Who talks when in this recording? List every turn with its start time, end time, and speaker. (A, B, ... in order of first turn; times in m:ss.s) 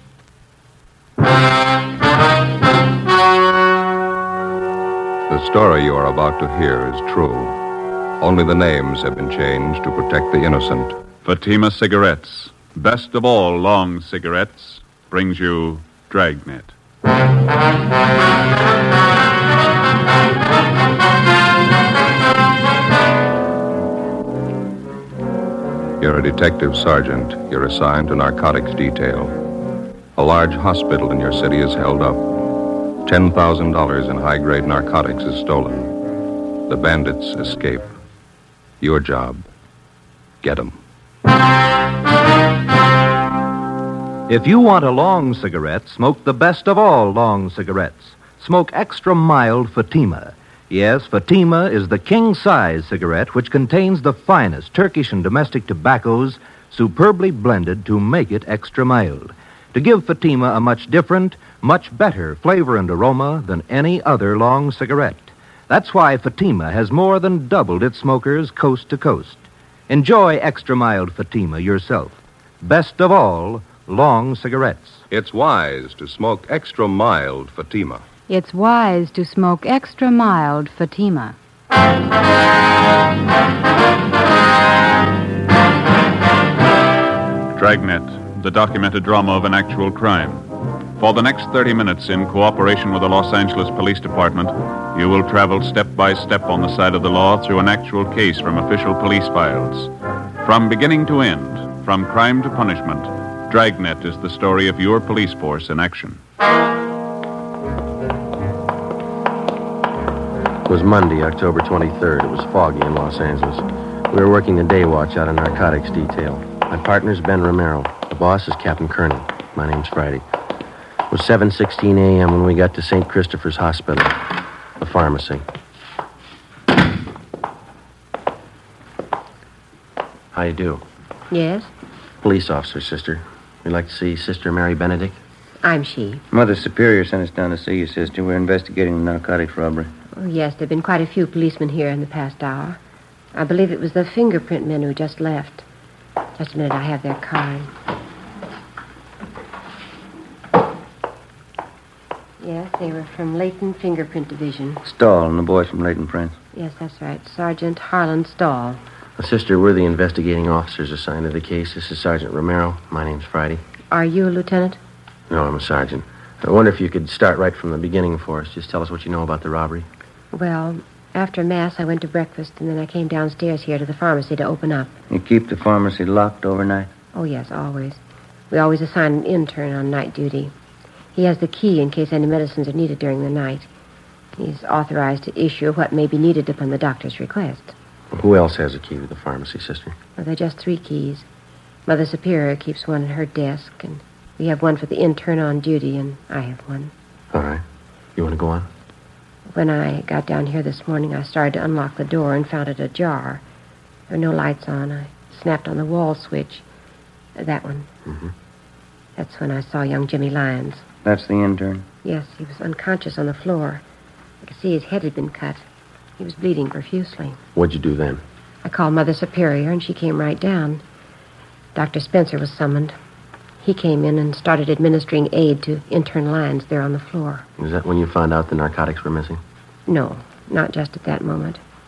0:05.3-0:07.6 A
0:08.2-0:11.0 A
0:11.2-0:16.7 B
0:26.0-0:29.3 A
0:30.2-0:32.3 A
0:33.0-0:35.9 A
0:36.7-0:37.9 A
0:38.8-0:39.4 A
0:40.4-0:40.8 A
0:44.3-1:15.0 C
1:15.1-1:18.0 A
1:18.3-1:21.4 D
1:27.5-1:30.4 B
1:31.0-1:39.9 B
1:40.4-1:46.2 B
1:50.7-2:00.2 E
2:01.1-2:04.3 E
2:04.8-2:05.4 E
2:10.3-2:10.8 E
2:11.3-2:11.7 F
2:12.2-2:15.2 E
2:15.6-2:16.2 F
2:16.3-2:19.9 G
2:20.2-2:22.8 F
2:23.3-2:25.6 F
2:26.4-2:27.7 F
2:32.4-2:34.8 F
2:34.8-2:36.3 G
2:36.5-2:38.8 F
2:39.2-2:43.6 E
2:43.9-2:44.8 F
2:45.3-2:49.9 E
2:50.3-2:54.9 F
2:55.1-2:56.9 G
2:57.1-3:00.5 F
3:01.1-3:03.7 F
3:04.4-3:07.7 F
3:08.1-3:10.0 E
3:10.2-3:11.2 F
3:11.8-3:16.9 F
3:17.3-3:17.6 E
3:18.2-3:18.7 E
3:19.5-3:23.4 F
3:24.1-3:26.6 F
3:27.4-3:27.9 F
3:28.0-3:28.3 E
3:29.2-3:30.8 F
3:31.0-3:31.8 G
3:32.0-3:33.8 F
3:34.4-3:35.6 F
3:36.2-3:37.4 F
3:37.5-3:38.2 E
3:38.6-3:40.8 F
3:41.7-3:42.9 F
3:43.6-3:47.4 F
3:47.6-3:49.4 E
3:49.9-3:51.6 F